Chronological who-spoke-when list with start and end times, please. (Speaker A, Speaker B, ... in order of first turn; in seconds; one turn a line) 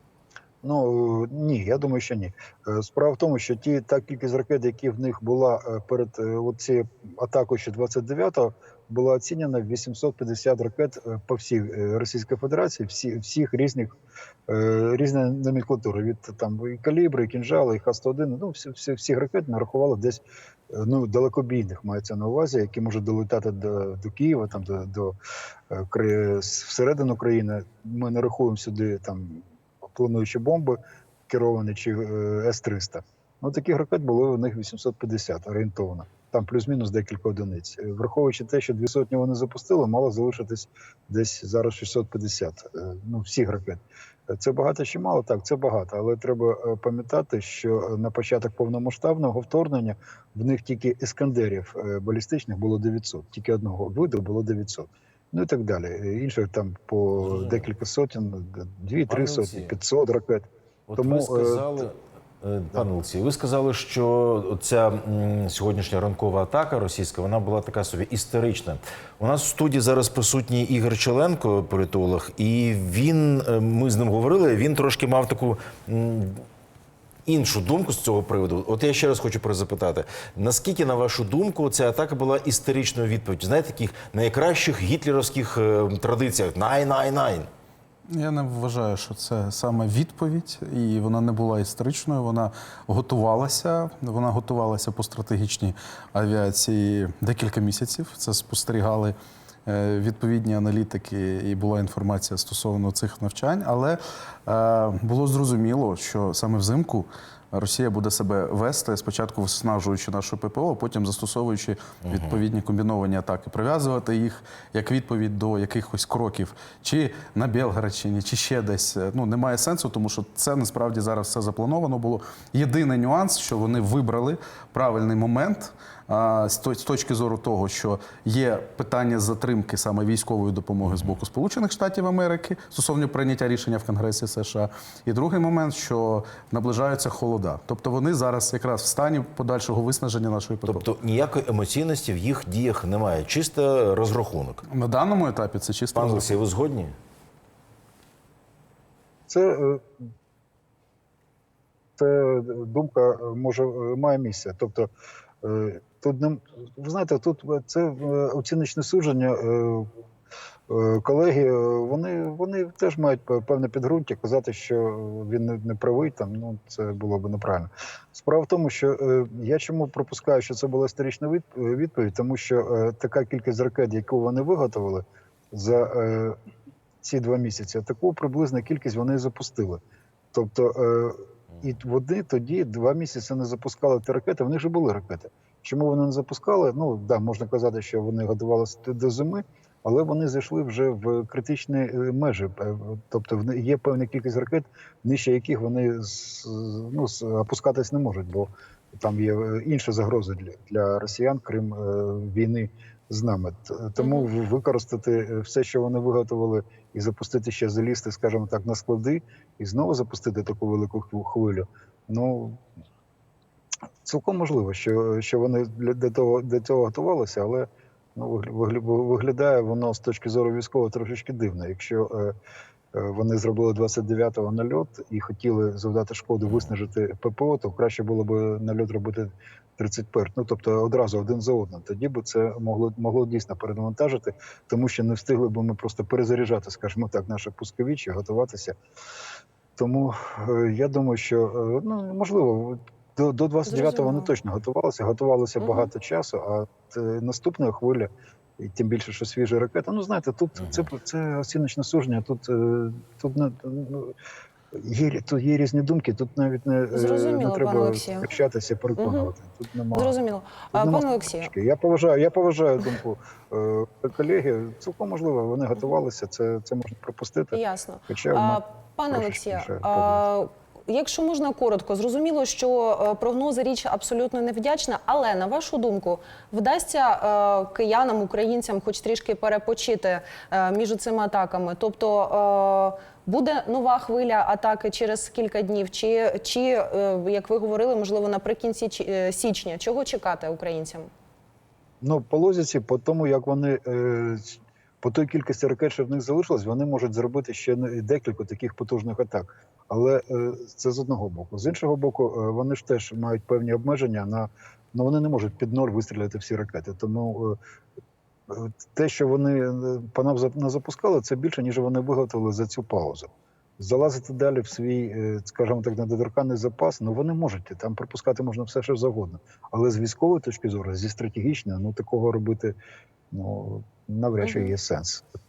Speaker A: 0.6-13.9
Speaker A: 14.5-25.1
Speaker A: 25.7-61.8
Speaker B: 57.2-57.7
Speaker B: 59.1-59.7
Speaker B: 60.9-76.4
Speaker B: 77.2-87.5
Speaker C: 88.2-99.1
Speaker C: 99.7-111.7
Speaker B: 112.0-112.4
Speaker C: 112.3-140.8
Speaker B: 130.8-131.2
Speaker B: 140.7-144.6
Speaker C: 144.7-146.0
Speaker B: 145.9-146.9
Speaker A: 149.3-149.8
Speaker A: 152.0-154.9
Speaker A: 155.4-159.9
Speaker A: 160.7-176.4
Speaker A: 177.0-179.8
Speaker A: 180.3-212.6
Speaker D: 204.0-204.3
Speaker A: 214.0-222.3
Speaker A: 222.9-238.8
Speaker B: 226.4-226.7
Speaker A: 239.8-254.1
Speaker D: 243.7-244.3
Speaker D: 245.6-245.9
Speaker B: 250.6-250.8
Speaker A: 254.7-260.2
Speaker D: 256.9-258.3
Speaker D: 259.0-259.3
Speaker D: 259.9-261.5
Speaker A: 260.7-270.2
Speaker D: 267.5-291.1
Speaker A: 292.0-307.6
Speaker A: 308.5-322.8
Speaker A: 323.3-325.2
Speaker D: 324.4-324.7